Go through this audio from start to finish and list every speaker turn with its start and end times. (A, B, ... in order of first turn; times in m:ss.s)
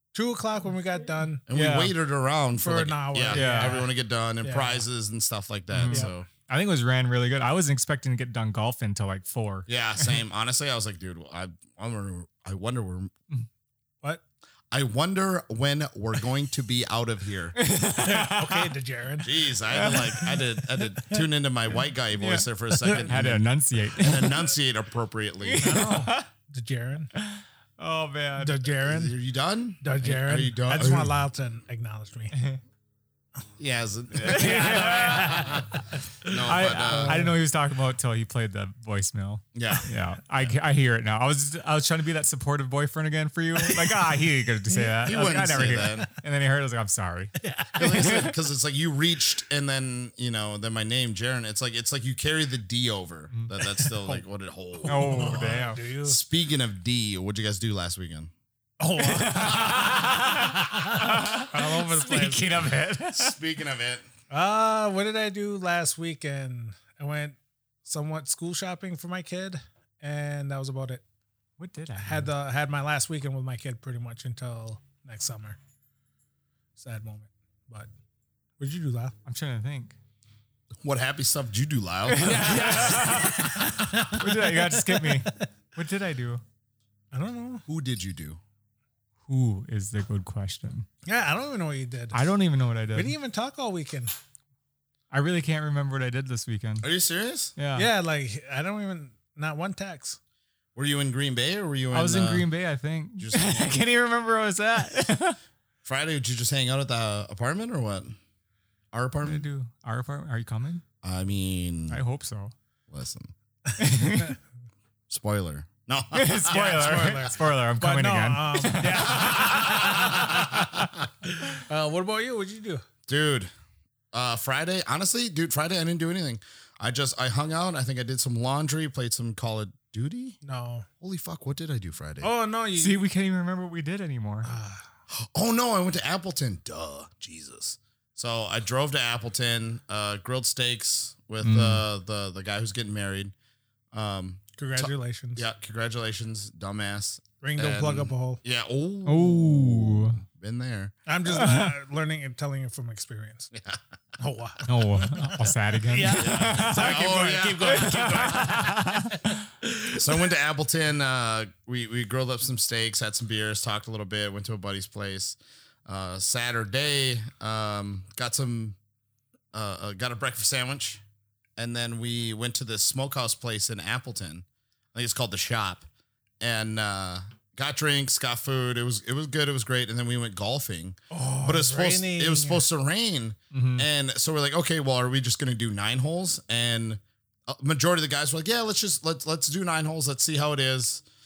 0:00.1-0:01.4 A
0:01.5-0:06.3 B
0:01.5-0:01.9 C
0:02.6-0:03.9 A
0:03.3-0:03.8 C
0:04.4-0:04.8 A
0:05.7-0:10.2 C
0:09.7-0:13.1 B
0:14.7-0:17.6 B
0:17.6-0:18.7 C
0:18.0-0:20.2 A
0:19.2-0:25.8 B
0:19.8-0:20.4 C
0:22.2-0:24.4 C
0:25.4-0:26.2 C
0:25.6-0:27.1 A
0:27.2-0:28.6 C
0:28.4-0:29.1 A
0:28.8-0:31.1 B
0:29.8-0:32.4 A
0:32.3-0:32.6 C
0:33.6-0:35.7 B
0:34.2-0:35.8 A
0:34.2-0:35.6 C
0:36.2-0:37.3 B
0:36.4-0:48.3 C
0:36.6-0:37.4 A
0:39.5-0:40.5 B
0:43.6-0:44.2 A
0:45.0-0:46.1 B
0:47.4-0:48.2 A
0:47.8-0:58.3 B
0:53.3-0:54.1 C
0:54.8-0:56.2 A
0:54.8-0:55.8 C
0:58.8-0:59.9 A
0:59.0-1:03.4 C
0:59.4-1:00.0 B
1:00.8-1:02.5 A
1:03.1-1:04.0 B
1:04.3-1:11.0 A
1:11.6-1:12.3 C
1:12.0-1:15.6 A
1:16.8-1:17.9 A
1:18.6-1:19.1 A
1:19.2-1:20.0 C
1:20.8-1:23.1 B
1:22.1-1:26.4 C
1:22.2-1:25.4 A
1:27.1-1:27.7 A
1:27.7-1:28.4 B
1:29.3-1:30.9 C
1:31.0-1:32.3 A
1:32.1-1:33.1 C
1:32.9-1:34.1 A
1:35.1-1:36.9 C
1:36.8-1:37.5 B
1:37.6-1:37.9 C
1:37.7-1:40.2 A
1:40.7-1:42.5 B
1:41.9-1:45.4 C
1:43.2-1:43.8 B
1:45.8-1:48.2 B
1:48.9-1:49.4 B
1:49.2-1:50.8 C
1:51.0-1:52.0 B
1:51.9-1:52.5 C
1:52.9-1:53.3 B
1:53.8-1:54.4 C
1:55.1-1:57.1 B
1:56.1-2:00.3 C
1:56.5-2:00.7 A
1:59.1-2:01.0 B
2:01.3-2:02.8 A
2:03.1-2:03.5 B
2:04.1-2:10.4 B
2:10.4-2:10.9 A
2:11.0-2:12.3 B
2:12.2-2:13.0 A
2:12.8-2:14.5 C
2:14.4-2:14.9 A
2:15.1-2:23.3 B
2:21.4-2:21.8 C
2:23.9-2:30.9 B
2:24.6-2:25.4 A
2:27.4-2:28.4 A
2:29.0-2:30.2 C
2:31.1-2:33.5 A
2:31.3-2:31.7 C
2:33.5-2:33.8 B
2:34.2-2:39.1 A
2:34.7-2:37.0 C
2:36.2-2:38.8 B
2:37.7-2:39.3 C
2:39.9-2:48.8 B
2:49.5-2:51.0 B
2:51.6-2:55.9 B
2:56.4-3:11.0 B
3:01.1-3:02.6 A
3:03.5-3:03.9 C